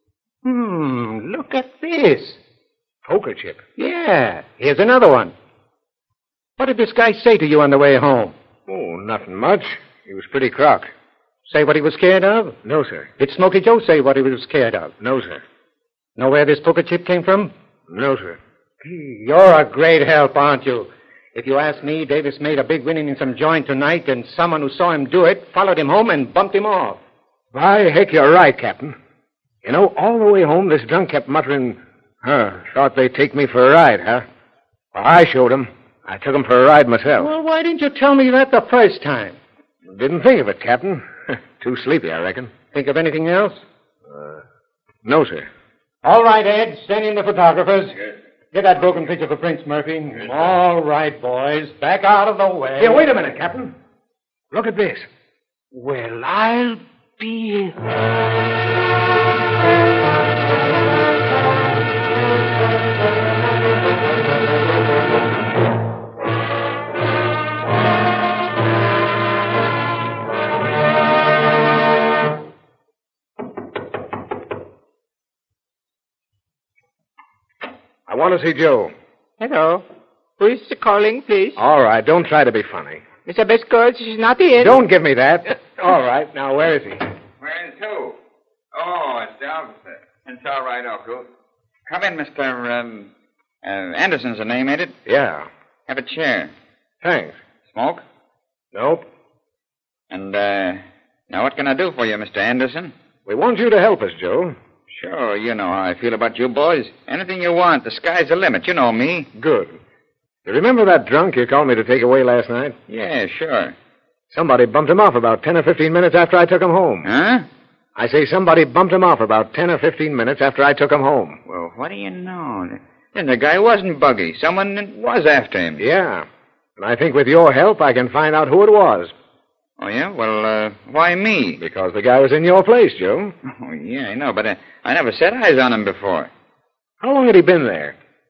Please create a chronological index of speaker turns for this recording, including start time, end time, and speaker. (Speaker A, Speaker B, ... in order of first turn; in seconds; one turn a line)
Speaker A: 0.4-2.4
Speaker B: 3.0-3.6
Speaker A: 3.8-5.3
Speaker A: 6.6-8.3
Speaker B: 8.7-10.9
Speaker A: 11.5-12.6
Speaker B: 12.6-13.1
Speaker A: 13.2-14.9
Speaker B: 15.0-15.4
Speaker A: 16.2-17.5
Speaker B: 17.9-18.4
Speaker A: 18.8-27.0
Speaker B: 27.5-28.9
Speaker B: 29.6-34.2
Speaker B: 34.9-37.3
Speaker A: 37.2-39.4
Speaker B: 39.9-42.5
Speaker A: 42.7-43.6
Speaker B: 45.0-45.5
Speaker A: 46.0-48.0
Speaker A: 48.5-53.0
Speaker B: 52.8-53.7
Speaker B: 54.5-55.1
Speaker B: 55.7-57.7
Speaker B: 78.1-78.9
Speaker C: 79.4-79.8
Speaker C: 80.4-81.6
Speaker B: 81.5-83.0
Speaker C: 83.2-84.8
Speaker B: 84.6-87.0
Speaker D: 87.4-88.2
Speaker D: 88.7-91.3
Speaker D: 91.9-93.1
Speaker D: 93.6-94.9
Speaker B: 95.0-95.5
Speaker D: 95.9-96.5
Speaker B: 97.0-97.4
Speaker D: 97.7-98.0
Speaker B: 98.7-99.0
Speaker D: 100.1-102.9
Speaker B: 103.2-104.5
Speaker D: 104.9-109.3
Speaker B: 109.3-109.8
Speaker B: 110.4-112.8
Speaker D: 112.9-113.7
Speaker B: 114.3-117.1
Speaker D: 117.0-117.5
Speaker B: 118.0-121.4
Speaker D: 121.5-125.8
Speaker B: 125.8-126.2
Speaker B: 126.8-129.1
Speaker D: 129.8-131.6
Speaker B: 131.6-133.3
Speaker D: 133.4-136.3
Speaker B: 137.0-137.9